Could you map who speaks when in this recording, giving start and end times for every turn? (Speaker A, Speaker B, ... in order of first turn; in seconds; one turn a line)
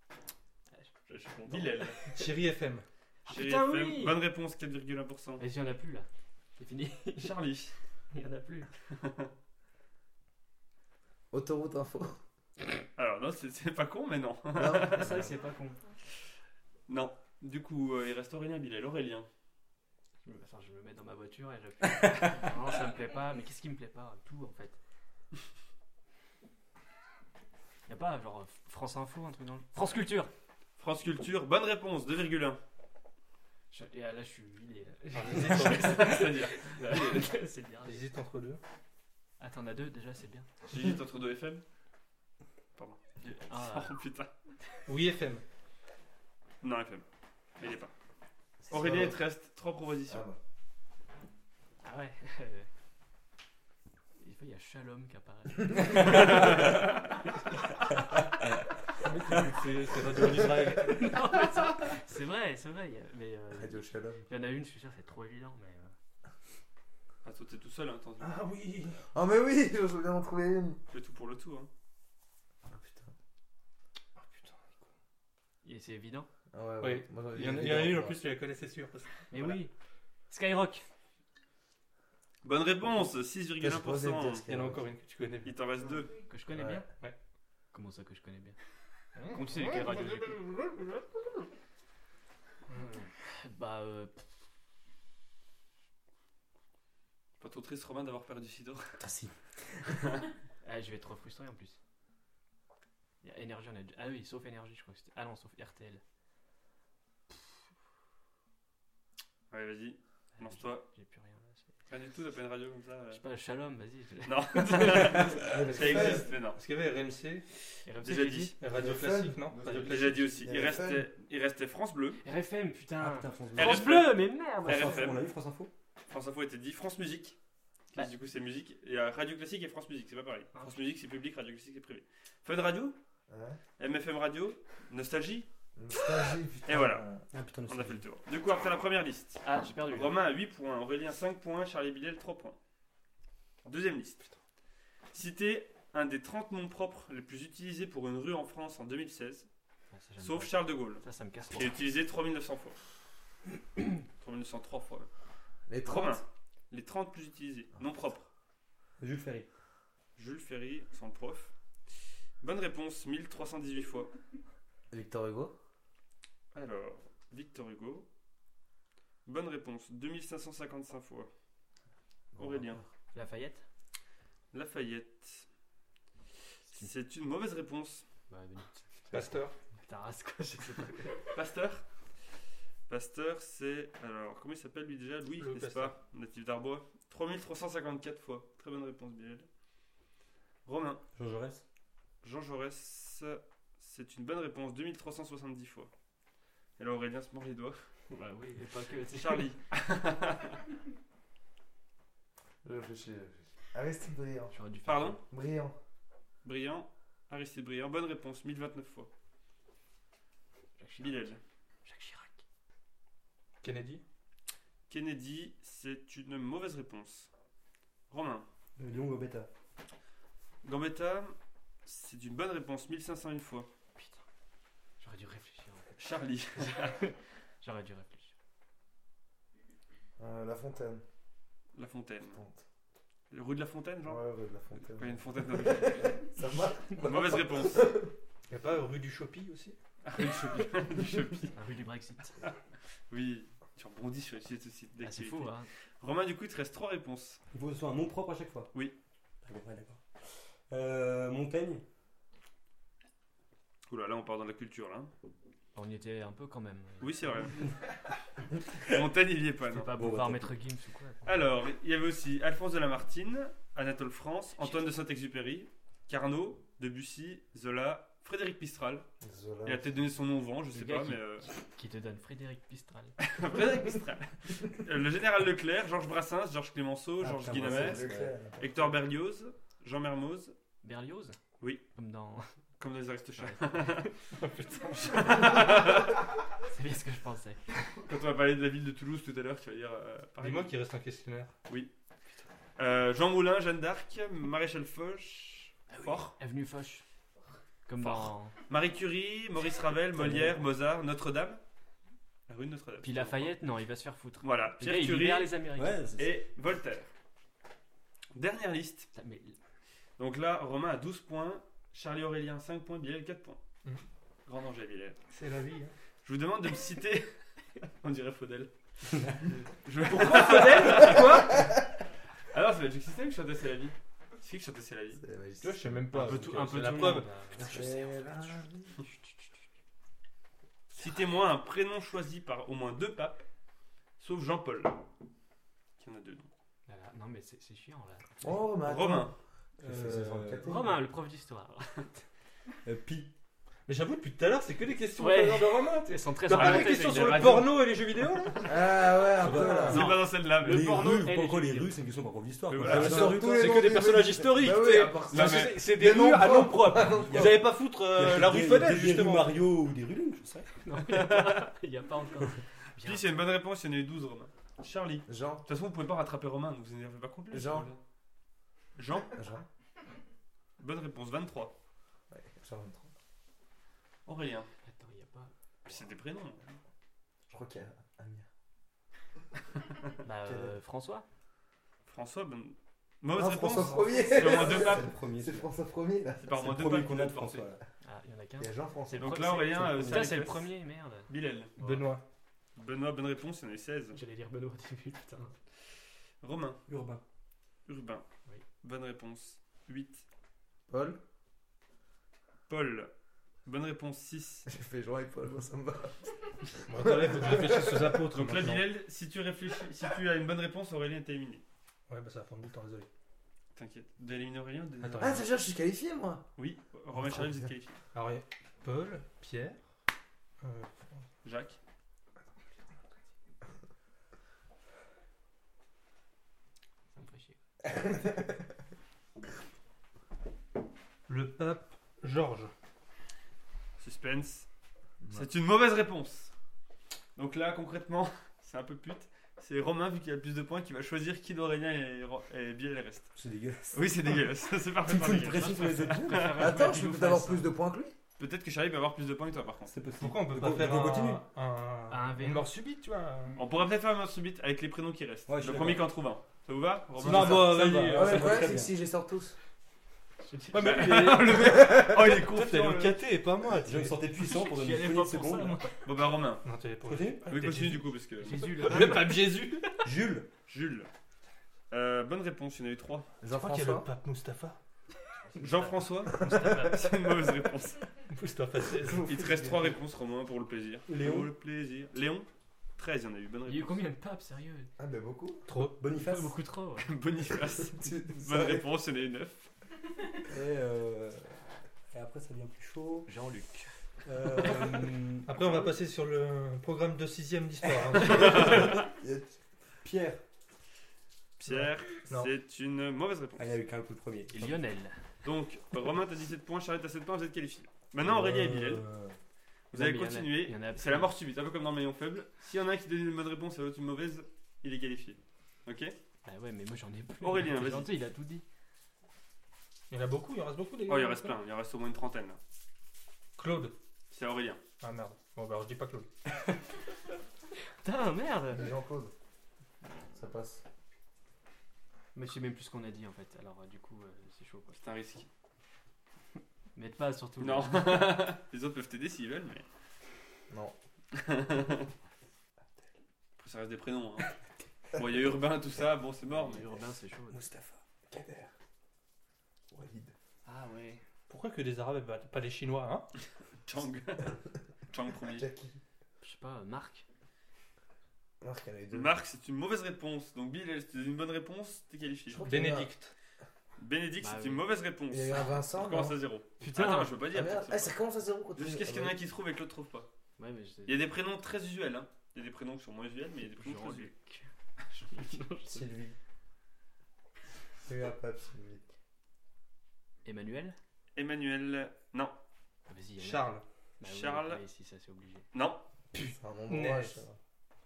Speaker A: 0.7-2.3
Speaker B: 1.1-2.0
Speaker C: 2.0-2.8
Speaker A: 3.2-4.2
Speaker B: 3.3-5.4
Speaker A: 5.4-7.3
Speaker B: 7.2-7.7
Speaker A: 8.1-8.7
Speaker B: 8.9-9.3
Speaker D: 11.3-12.2
Speaker B: 12.9-15.3
Speaker D: 14.5-15.3
Speaker A: 14.8-15.8
Speaker B: 16.9-19.3
Speaker A: 20.2-24.8
Speaker A: 27.9-30.3
Speaker B: 30.8-32.6
Speaker A: 33.7-38.0
Speaker C: 35.1-36.2
Speaker B: 35.5-37.2
Speaker C: 37.8-38.6
Speaker A: 39.4-40.5
Speaker B: 40.6-41.6
Speaker B: 42.8-44.3
Speaker A: 43.2-44.0
Speaker C: 44.9-45.4
Speaker B: 46.6-47.0
Speaker B: 47.6-47.9
Speaker D: 48.6-49.2
Speaker B: 48.7-50.2
Speaker D: 50.1-50.4
Speaker A: 51.8-52.7
Speaker A: 54.2-56.7
Speaker B: 56.1-56.7
Speaker C: 59.0-61.2
Speaker A: 60.8-65.9
Speaker D: 63.5-64.2
Speaker B: 67.2-68.4
Speaker C: 68.2-69.0
Speaker D: 69.1-70.8
Speaker B: 70.9-71.7
Speaker D: 72.7-73.1
Speaker C: 74.2-74.9
Speaker A: 75.6-76.3
Speaker D: 76.5-78.2
Speaker C: 76.8-79.6
Speaker A: 79.3-79.7
Speaker A: 80.3-80.8
Speaker B: 82.4-84.4
Speaker D: 83.6-84.8
Speaker C: 84.5-85.5
Speaker B: 85.4-86.1
Speaker A: 86.2-86.9
Speaker D: 86.5-86.8
Speaker A: 87.7-88.6
Speaker C: 89.1-90.9
Speaker A: 89.3-90.5
Speaker A: 92.7-94.3
Speaker B: 97.4-99.0
Speaker E: 99.0-99.3
Speaker A: 100.6-101.8
Speaker A: 103.2-106.0
Speaker B: 109.5-110.8
Speaker A: 110.4-111.7
Speaker B: 111.9-113.2
Speaker A: 113.1-115.7
Speaker B: 114.2-116.6
Speaker D: 115.3-116.3
Speaker C: 115.8-117.4
Speaker A: 117.8-118.5
Speaker B: 118.0-118.5
Speaker C: 118.6-120.4
Speaker D: 118.7-121.1
Speaker B: 119.7-122.2
Speaker A: 122.2-125.1
Speaker E: 123.0-124.0
Speaker B: 123.5-125.2
Speaker E: 124.6-125.7
Speaker B: 126.1-127.4
Speaker B: 127.9-132.9
Speaker A: 130.5-130.8
Speaker D: 133.3-133.6
Speaker B: 133.8-137.0
Speaker D: 135.8-137.2
Speaker E: 137.3-138.0
Speaker B: 137.7-142.6
Speaker A: 139.4-140.2
Speaker B: 143.6-144.2
Speaker B: 145.1-149.5
Speaker A: 149.9-151.8
Speaker B: 150.2-152.8
Speaker B: 154.2-155.1
Speaker D: 155.7-156.2
Speaker B: 155.8-158.3
Speaker E: 159.0-159.5
Speaker B: 160.2-161.5
Speaker B: 162.4-164.1
Speaker D: 164.9-165.5
Speaker B: 166.5-168.1
Speaker B: 169.2-171.3
Speaker D: 172.3-172.8
Speaker B: 172.4-172.8
Speaker A: 173.1-173.6
Speaker B: 174.5-175.4
Speaker A: 176.7-176.9
Speaker B: 176.7-178.0
Speaker A: 178.3-181.2
Speaker C: 179.1-179.6
Speaker B: 181.3-181.8
Speaker B: 182.9-189.5
Speaker C: 185.3-185.9
Speaker B: 190.7-191.0
Speaker E: 191.1-191.6
Speaker B: 192.2-195.9
Speaker B: 196.8-197.9
Speaker A: 198.1-199.5
Speaker B: 199.1-200.6
Speaker D: 202.6-204.5
Speaker A: 204.5-205.2
Speaker B: 204.8-205.2
Speaker D: 205.2-205.8
Speaker B: 206.4-209.1
Speaker A: 210.8-212.4
Speaker B: 211.0-211.4
Speaker C: 213.6-214.0
Speaker B: 214.9-217.3
Speaker B: 218.1-218.5
Speaker E: 218.8-219.5
Speaker B: 220.6-221.3
Speaker B: 221.8-223.7
Speaker A: 223.9-224.2
Speaker A: 225.0-225.9
Speaker B: 226.0-227.0
Speaker A: 226.6-228.3
Speaker D: 230.2-231.0
Speaker B: 231.8-232.4
Speaker D: 232.3-232.6
Speaker B: 233.3-234.2
Speaker D: 234.0-238.1
Speaker B: 234.8-236.2
Speaker B: 236.9-237.8
Speaker C: 238.5-239.8
Speaker B: 240.0-241.5
Speaker A: 241.5-242.4
Speaker B: 243.1-247.4
Speaker A: 245.0-245.7
Speaker E: 247.5-248.7
Speaker E: 249.4-251.8
Speaker B: 253.9-255.1
Speaker A: 255.7-257.6
Speaker B: 257.0-257.6
Speaker B: 258.8-259.9
Speaker A: 259.7-261.4
Speaker E: 259.9-260.6
Speaker B: 261.2-269.1
Speaker A: 264.6-264.9
Speaker D: 269.2-270.0
Speaker B: 269.6-271.4
Speaker A: 270.7-273.1
Speaker B: 273.2-280.5
Speaker E: 277.2-278.3
Speaker D: 277.2-278.9
Speaker A: 280.8-281.4
Speaker A: 281.9-282.5
Speaker B: 282.8-284.1
Speaker A: 283.4-284.1
Speaker C: 284.3-285.6
Speaker B: 285.0-286.3
Speaker A: 286.6-287.8
Speaker B: 288.0-290.7
Speaker C: 290.4-291.5
Speaker B: 292.8-296.3
Speaker A: 295.9-297.0
Speaker A: 297.9-298.5
Speaker B: 298.0-301.6
Speaker E: 300.1-300.6
Speaker B: 302.5-303.5
Speaker A: 303.0-306.0
Speaker B: 304.4-305.5
Speaker E: 305.8-306.4
Speaker B: 306.2-307.1
Speaker B: 308.3-309.1
Speaker A: 309.1-309.6
Speaker B: 310.2-313.6
Speaker B: 314.4-315.2
Speaker C: 315.3-315.9
Speaker B: 316.2-321.7
Speaker C: 320.1-321.5
Speaker A: 320.1-321.5
Speaker B: 322.5-325.2
Speaker D: 325.2-326.3
Speaker C: 325.6-327.3
Speaker A: 326.1-328.6
Speaker D: 327.6-328.9
Speaker B: 330.9-333.4
Speaker B: 334.2-335.0
Speaker B: 336.0-336.5
Speaker A: 336.9-338.5
Speaker D: 338.4-341.0
Speaker B: 338.8-339.3
Speaker E: 339.8-340.8
Speaker A: 340.6-342.2
Speaker E: 342.8-343.3
Speaker C: 343.9-348.8
Speaker A: 345.2-347.6
Speaker B: 346.5-347.8
Speaker D: 348.6-350.2
Speaker E: 349.4-353.8
Speaker A: 349.5-351.9
Speaker B: 349.8-350.9
Speaker B: 352.7-353.3
Speaker D: 352.8-357.7
Speaker C: 352.9-359.6
Speaker B: 355.3-355.8
Speaker E: 357.1-360.7
Speaker A: 360.8-363.4
Speaker B: 361.1-361.6
Speaker B: 363.0-368.0
Speaker D: 365.3-365.6
Speaker D: 367.5-367.9
Speaker B: 368.9-369.3
Speaker D: 369.3-369.6
Speaker B: 370.8-371.7
Speaker D: 372.3-373.1
Speaker B: 374.2-374.7
Speaker A: 374.8-375.5
Speaker B: 375.9-376.8
Speaker D: 377.5-378.5
Speaker A: 380.2-381.2
Speaker D: 380.4-380.7
Speaker B: 382.1-385.1
Speaker D: 383.3-386.5
Speaker E: 384.5-385.7
Speaker B: 386.4-387.7
Speaker E: 386.5-387.8
Speaker A: 388.0-392.0
Speaker D: 388.6-389.9
Speaker B: 389.1-390.7
Speaker E: 389.9-390.4
Speaker B: 391.3-391.7
Speaker C: 391.8-392.2
Speaker B: 392.8-394.2
Speaker A: 394.1-395.5
Speaker B: 396.4-396.8
Speaker E: 396.9-397.2
Speaker B: 397.9-398.2
Speaker B: 398.8-400.2
Speaker D: 400.9-401.2
Speaker B: 402.7-403.1
Speaker B: 403.6-404.7
Speaker D: 404.7-406.2
Speaker C: 406.9-408.9
Speaker D: 406.9-408.3
Speaker B: 408.3-411.6
Speaker C: 412.1-413.1
Speaker B: 413.7-415.5
Speaker C: 415.0-415.4
Speaker D: 415.2-416.5
Speaker B: 416.6-418.0
Speaker D: 417.2-417.7
Speaker C: 418.1-419.8
Speaker C: 420.6-421.2
Speaker B: 421.4-421.8
Speaker A: 427.1-427.6
Speaker D: 428.0-428.4
Speaker C: 431.3-432.7
Speaker B: 434.0-434.7
Speaker B: 435.3-436.5
Speaker B: 437.4-443.3
Speaker E: 443.4-444.2
Speaker B: 443.9-446.8
Speaker E: 445.0-446.6
Speaker A: 445.4-447.7
Speaker D: 446.5-448.1
Speaker B: 448.4-449.9
Speaker E: 449.9-451.4
Speaker C: 450.2-453.6
Speaker A: 452.1-452.7
Speaker B: 453.5-457.8
Speaker E: 455.5-456.1
Speaker C: 457.2-458.6
Speaker E: 457.2-458.9
Speaker D: 458.1-459.6
Speaker A: 460.4-461.5
Speaker C: 460.7-464.2
Speaker B: 460.8-463.2
Speaker E: 463.8-465.8
Speaker A: 464.4-466.0
Speaker B: 466.0-466.6
Speaker C: 466.6-468.0
Speaker E: 467.1-467.5
Speaker B: 467.5-468.7
Speaker A: 468.4-469.4
Speaker C: 468.7-470.0
Speaker E: 470.0-470.5
Speaker B: 470.7-471.1
Speaker B: 471.9-473.3
Speaker D: 473.4-474.1
Speaker C: 473.5-474.8
Speaker A: 475.4-477.2
Speaker B: 475.6-478.1
Speaker D: 476.4-476.9
Speaker C: 478.3-479.3
Speaker D: 479.0-480.0
Speaker B: 479.2-482.5
Speaker E: 481.1-481.5
Speaker B: 483.0-484.0
Speaker A: 483.7-484.9
Speaker D: 485.0-485.6
Speaker C: 485.7-485.9
Speaker E: 485.7-486.5
Speaker A: 486.1-487.1
Speaker B: 487.0-489.7
Speaker D: 487.9-488.9
Speaker E: 490.5-493.3
Speaker A: 493.3-493.9
Speaker E: 494.2-495.6
Speaker C: 495.4-499.0
Speaker B: 498.2-499.0
Speaker D: 498.7-499.5
Speaker E: 500.0-500.4
Speaker B: 501.6-503.7
Speaker E: 503.6-504.8
Speaker A: 504.5-505.2
Speaker B: 505.4-509.0
Speaker E: 508.2-509.4
Speaker A: 509.9-511.3
Speaker B: 509.9-516.1
Speaker A: 516.4-518.6
Speaker B: 517.4-518.1
Speaker C: 520.1-521.5
Speaker B: 521.1-522.6
Speaker C: 523.6-523.9
Speaker B: 524.3-524.8
Speaker C: 525.0-526.3
Speaker A: 528.0-528.9
Speaker D: 528.7-529.3
Speaker D: 530.3-530.8
Speaker A: 532.3-535.0
Speaker B: 534.9-535.5
Speaker A: 536.9-538.4
Speaker B: 537.6-539.8
Speaker D: 540.7-540.9
Speaker B: 541.3-542.1
Speaker B: 543.6-544.6
Speaker B: 545.1-546.9
Speaker A: 546.5-547.6
Speaker E: 547.5-548.0
Speaker D: 548.3-548.7
Speaker D: 549.9-550.3
Speaker A: 550.6-551.2
Speaker C: 551.5-553.3
Speaker B: 553.9-555.6
Speaker D: 555.5-556.0
Speaker A: 556.4-557.2
Speaker D: 558.6-559.3
Speaker B: 559.1-562.6
Speaker D: 562.5-563.1
Speaker C: 562.6-563.3
Speaker B: 564.0-568.2
Speaker A: 564.4-564.8
Speaker D: 565.3-566.4
Speaker A: 566.8-567.4
Speaker D: 567.5-569.4
Speaker B: 568.7-570.3
Speaker A: 570.6-571.2
Speaker B: 571.1-574.3
Speaker A: 573.8-576.1
Speaker D: 575.9-576.3
Speaker D: 578.0-579.0
Speaker A: 580.4-581.0
Speaker B: 581.3-582.5
Speaker A: 583.1-585.7
Speaker C: 583.4-583.8
Speaker B: 584.2-584.8
Speaker B: 585.7-586.0
Speaker C: 586.3-587.4
Speaker D: 586.4-587.6